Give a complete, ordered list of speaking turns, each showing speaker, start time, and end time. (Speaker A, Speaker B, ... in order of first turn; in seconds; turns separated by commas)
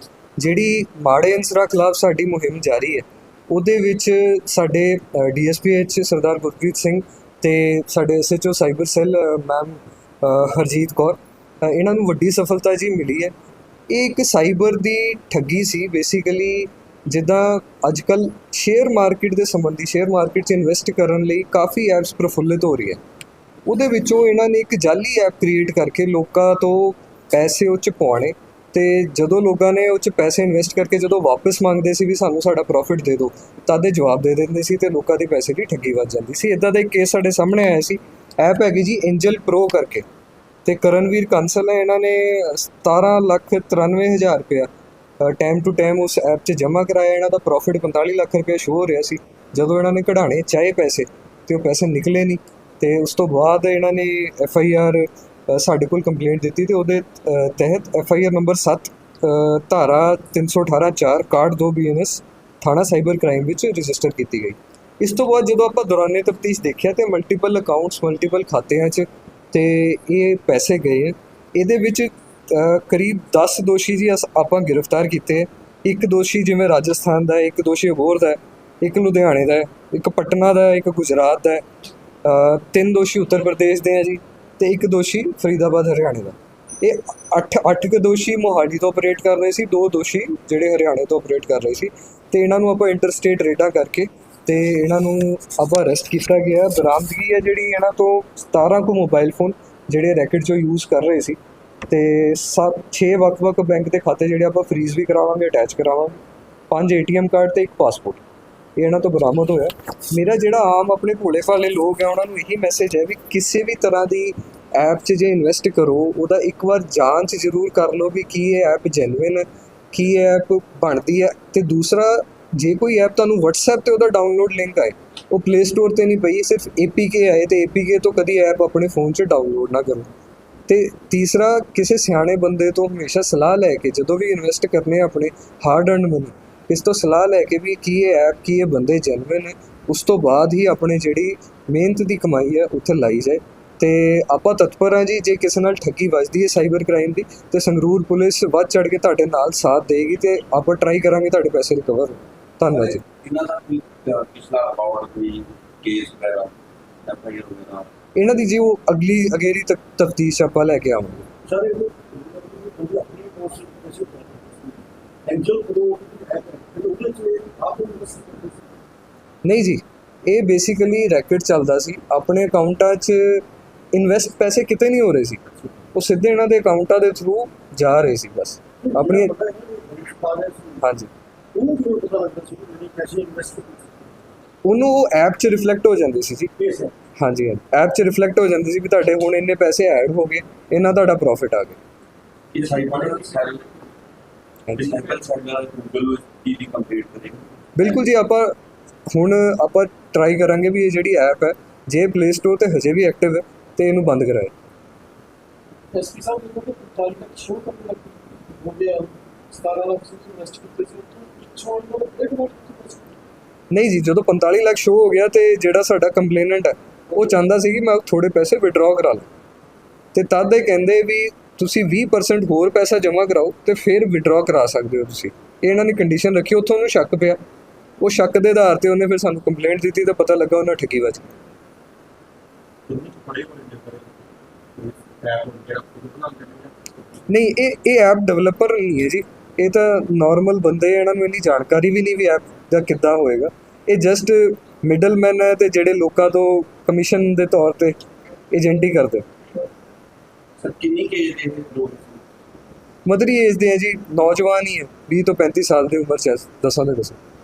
Speaker A: 0.4-13.3, Speaker A: 13.9-23.0, Speaker A: 23.7-40.0, Speaker A: 40.6-44.7, Speaker A: 45.2-81.7, Speaker A: 82.2-101.4, Speaker A: 101.9-106.2, Speaker A: 106.7-108.2, Speaker A: 108.8-130.1, Speaker A: 130.7-153.0, Speaker B: 152.7-156.5, Speaker B: 157.0-157.9, Speaker A: 158.2-161.2, Speaker C: 161.4-168.7, Speaker A: 169.4-179.3, Speaker C: 178.8-180.8, Speaker A: 180.8-181.1, Speaker C: 181.5-184.1, Speaker A: 184.6-186.5, Speaker C: 186.6-186.9, Speaker A: 187.2-191.8, Speaker B: 192.5-193.8, Speaker C: 192.6-193.3, Speaker B: 194.7-197.5, Speaker A: 197.8-198.5, Speaker A: 199.1-204.5, Speaker C: 205.9-213.2, Speaker A: 213.7-219.3, Speaker C: 217.1-217.4, Speaker A: 220.1-227.4, Speaker A: 228.0-231.3, Speaker C: 232.9-234.1, Speaker C: 234.8-236.9, Speaker A: 237.3-248.0, Speaker A: 248.5-249.2, Speaker B: 250.6-252.2, Speaker A: 253.1-257.2